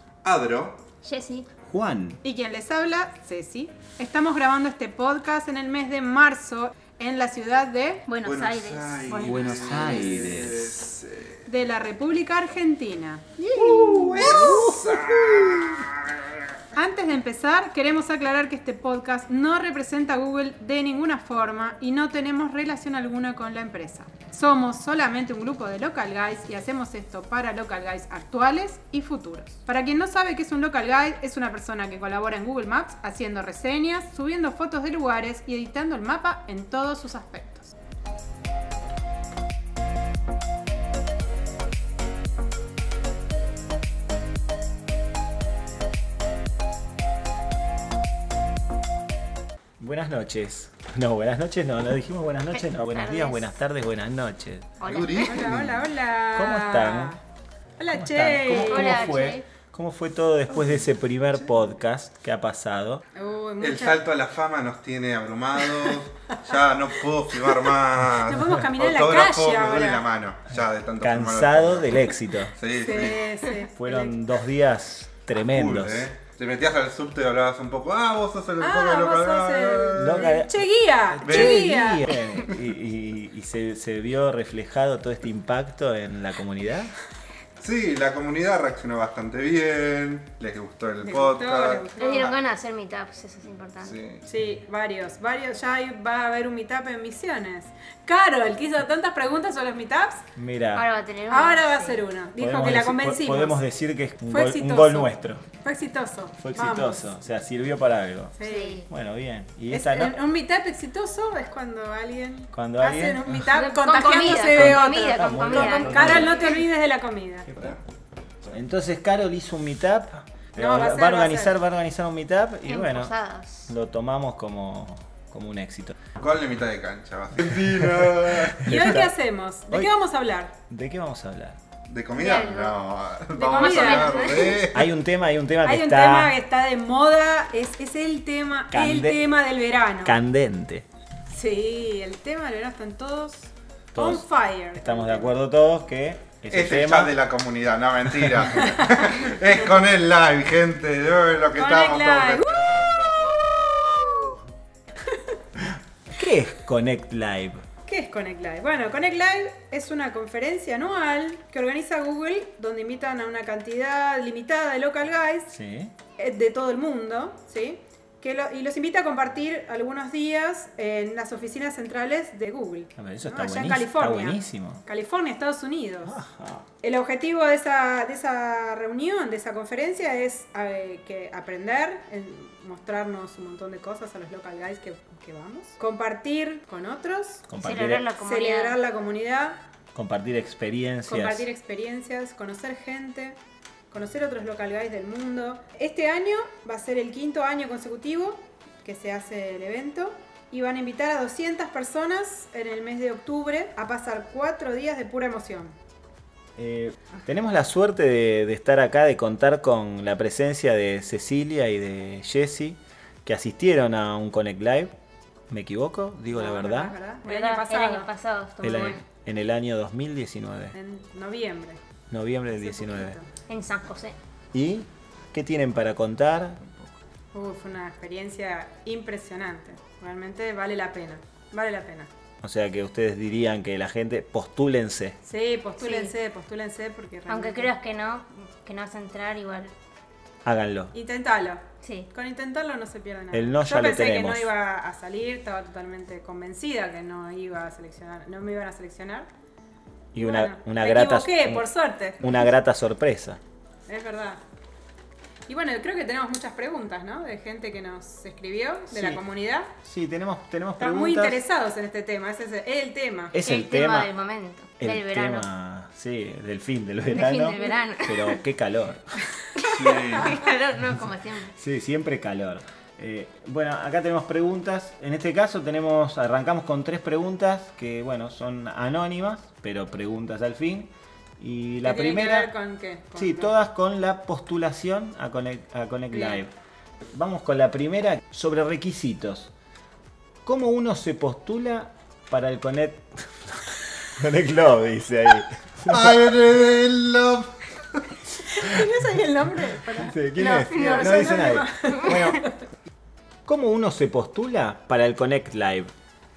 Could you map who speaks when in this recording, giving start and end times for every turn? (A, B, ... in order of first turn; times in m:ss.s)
0:00.2-0:00.8 A
0:01.0-0:01.4 B
0:01.6-0:02.2 C
0:02.2-0:08.0 D
0:08.1-0:10.2 B
0:08.2-0:11.4 A
0:09.2-0:10.8 C
0:11.4-0:13.3 D
0:13.4-0:14.6 B
0:13.5-0:16.4 A
0:13.6-0:15.8 C
0:16.7-0:37.7 D
0:49.8-0:54.9 C
0:52.5-0:53.5 B
0:54.8-0:55.5 B
0:54.8-0:55.9 A
0:55.2-0:57.2 D
0:56.3-0:57.2 C
0:57.8-0:59.1 D
0:57.9-1:03.0 C
0:58.5-0:59.4 B
1:03.1-1:04.0 D
1:03.6-1:13.4 A
1:07.4-1:07.7 D
1:08.2-1:10.0 D
1:11.0-1:12.5 C
1:12.8-1:14.2 D
1:13.8-1:16.1 C
1:15.3-1:20.3 A
1:18.6-1:22.1 D
1:20.0-1:26.9 C
1:21.2-1:21.6 A
1:27.6-1:32.3 A
1:31.0-1:32.3 D
1:32.0-1:34.0 B
1:33.8-1:34.2 A
1:34.2-1:40.2 D
1:40.4-1:40.8 C
1:40.7-1:42.0 B
1:41.3-1:43.6 D
1:42.4-1:45.4 C
1:44.2-1:47.1 D
1:46.4-1:48.3 C
1:48.4-1:48.8 D
1:48.4-1:48.9 B
1:48.9-1:50.2 C
1:49.7-1:57.5 D
1:52.5-1:53.5 C
1:53.5-1:56.6 B
1:54.5-1:56.5 C
1:57.5-1:57.8 C
1:58.4-2:03.1 C
2:00.6-2:01.6 D
2:02.7-2:03.7 B
2:03.7-2:06.0 C
2:06.2-2:09.0 A
2:07.5-2:09.1 C
2:08.6-2:10.5 D
2:10.7-2:11.6 C
2:11.9-2:14.9 A
2:12.1-2:12.8 B
2:13.3-2:14.4 D
2:13.4-2:14.6 B
2:14.7-2:16.4 C
2:15.6-2:20.2 D
2:18.7-2:19.2 C
2:20.0-2:20.9 C
2:21.3-2:25.3 D
2:23.9-2:27.2 C
2:26.5-2:33.2 A
2:31.6-2:32.6 D
2:36.1-2:37.6 C
2:37.9-2:45.5 D
2:45.5-2:45.9 C
2:46.2-2:56.1 D
2:53.0-2:54.8 C
2:56.0-2:56.7 C
2:56.8-3:07.4 D
3:07.5-3:08.0 C
3:07.6-3:08.8 B
3:08.2-3:09.7 D
3:09.9-3:11.5 C
3:11.1-3:13.4 D
3:13.9-3:25.8 D
3:26.6-3:34.9 C
3:35.5-3:36.9 C
3:36.3-3:38.1 D
3:37.2-3:39.0 B
3:38.6-3:40.7 C
3:40.7-3:41.8 D
3:42.1-3:43.2 C
3:42.5-3:43.3 D
3:43.5-3:44.2 B
3:44.5-3:46.9 C
3:47.3-3:52.1 D
3:52.4-3:55.2 C
3:55.2-3:57.7 D
3:55.8-3:56.1 B
3:57.3-3:59.7 B
4:00.4-4:00.9 C
4:00.9-4:09.3 D
4:01.8-4:02.1 B
4:03.3-4:04.5 C
4:10.1-4:13.4 C
4:10.2-4:12.5 D
4:13.9-4:14.4 D
4:15.5-4:19.7 D
4:18.9-4:19.2 C
4:19.8-4:21.4 C
4:20.8-4:23.3 D
4:23.3-4:24.1 C
4:23.4-4:25.4 B
4:24.8-4:29.1 C
4:27.1-4:28.4 B
4:29.6-4:31.5 B
4:29.6-4:30.4 A
4:31.6-4:42.5 C
4:41.8-4:43.5 D
4:43.1-4:46.5 C
4:46.1-4:46.4 D
4:47.1-4:49.5 C
4:50.4-4:56.3 C
4:55.9-4:58.0 A
4:58.4-5:02.5 D
4:59.9-5:02.4 C
5:03.4-5:05.9 C